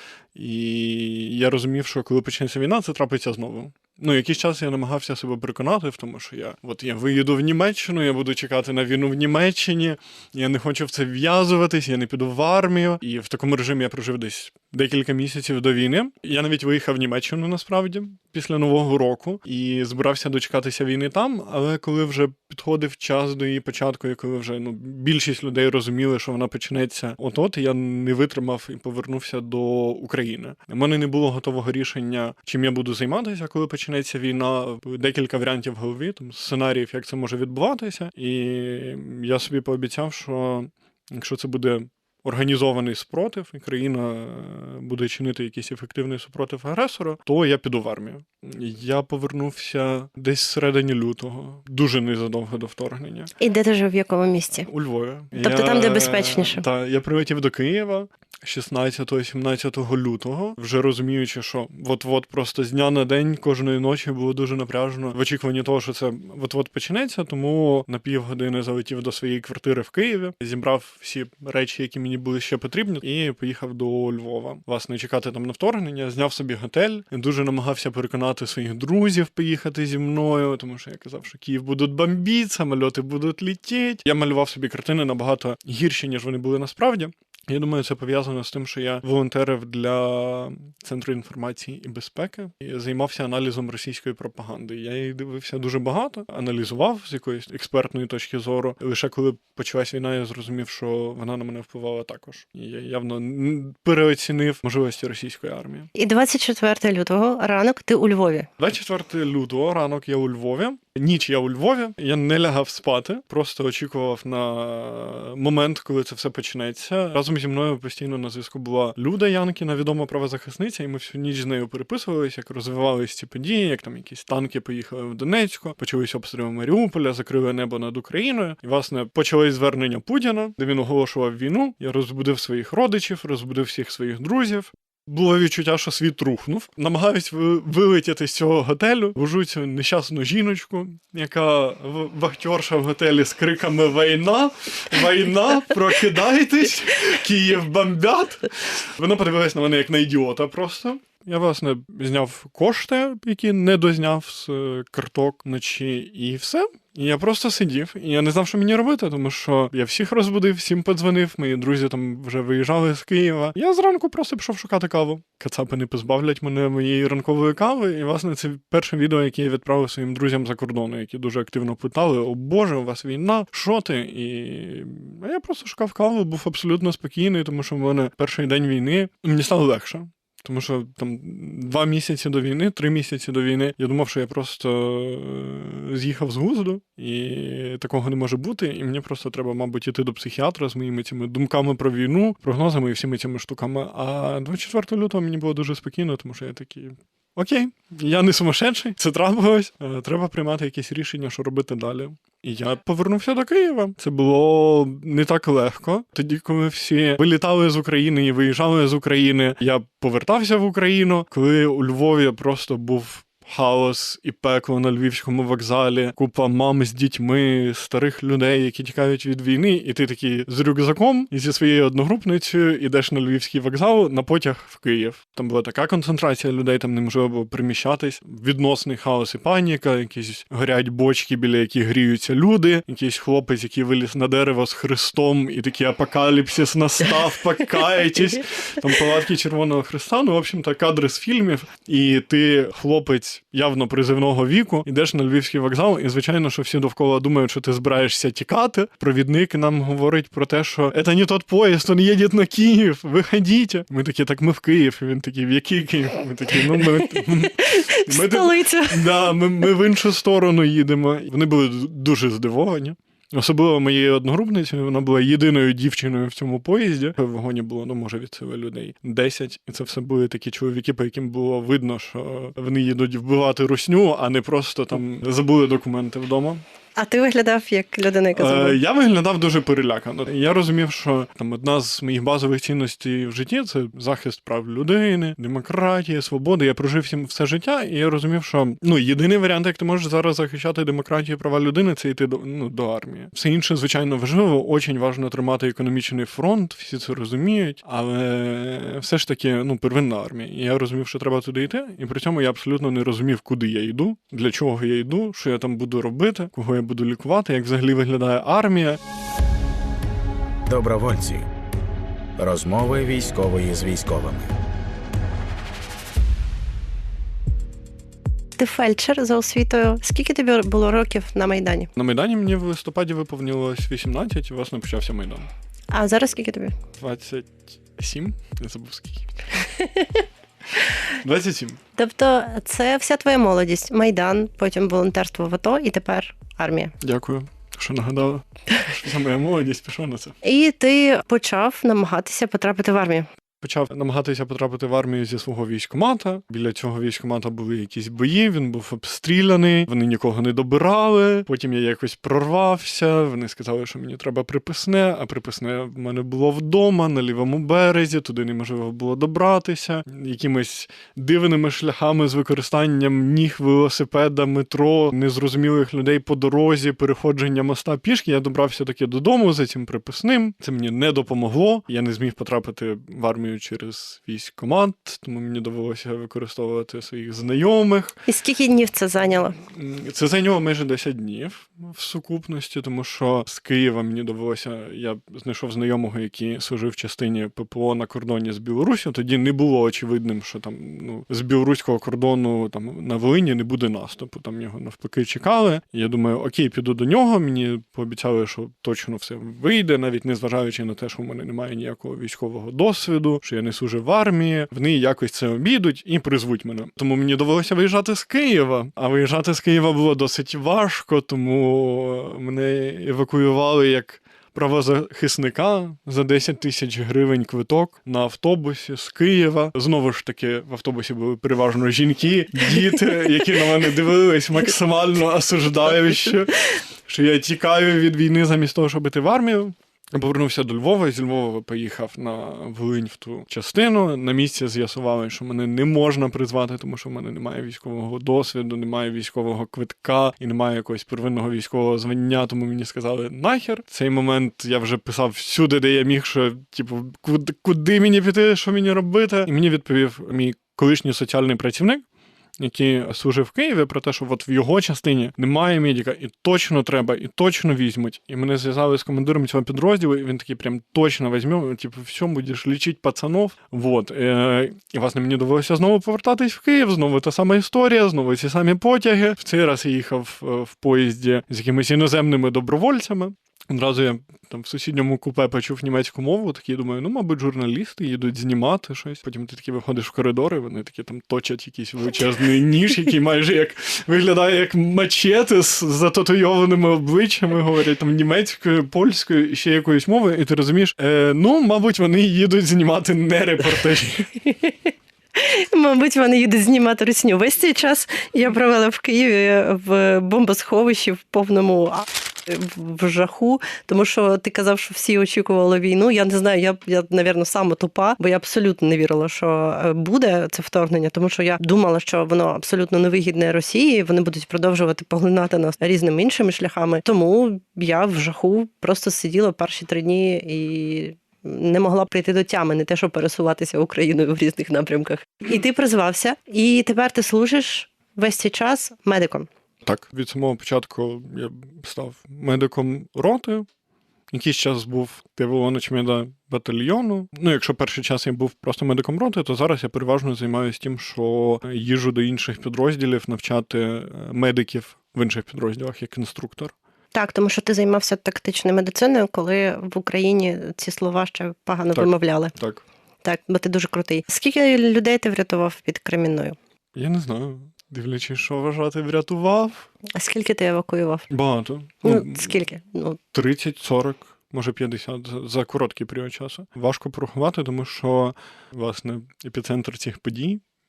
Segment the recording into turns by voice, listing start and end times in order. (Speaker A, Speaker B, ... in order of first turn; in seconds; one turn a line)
Speaker A: 0.3-53.3
Speaker B: 53.4-54.7
Speaker A: 54.5-105.9
Speaker B: 55.4-56.6
Speaker B: 106.0-108.5
Speaker A: 108.6-276.6
Speaker B: 256.7-259.3
Speaker B: 277.0-278.8
Speaker A: 278.3-309.0
Speaker C: 310.7-311.5
Speaker C: 312.4-314.5
Speaker B: 318.6-321.9
Speaker A: 322.0-325.5
Speaker B: 325.9-326.8
Speaker A: 327.0-329.3
Speaker B: 329.6-330.2
Speaker A: 331.2-331.8
Speaker B: 331.9-336.9
Speaker A: 337.0-340.4
Speaker B: 340.4-343.3
Speaker A: 343.6-378.2
Speaker B: 378.3-379.6
Speaker A: 379.6-452.0
Speaker A: 452.6-494.4
Speaker B: 494.4-529.5
Speaker A: 529.8-533.7
Speaker A: 534.3-546.7
Speaker B: 547.1-552.5
Speaker A: 551.9-552.8
Speaker B: 553.2-556.6
Speaker A: 557.0-559.9
Speaker B: 560.1-561.3
Speaker A: 561.3-562.6
Speaker B: 562.0-563.2
Speaker A: 563.3-570.6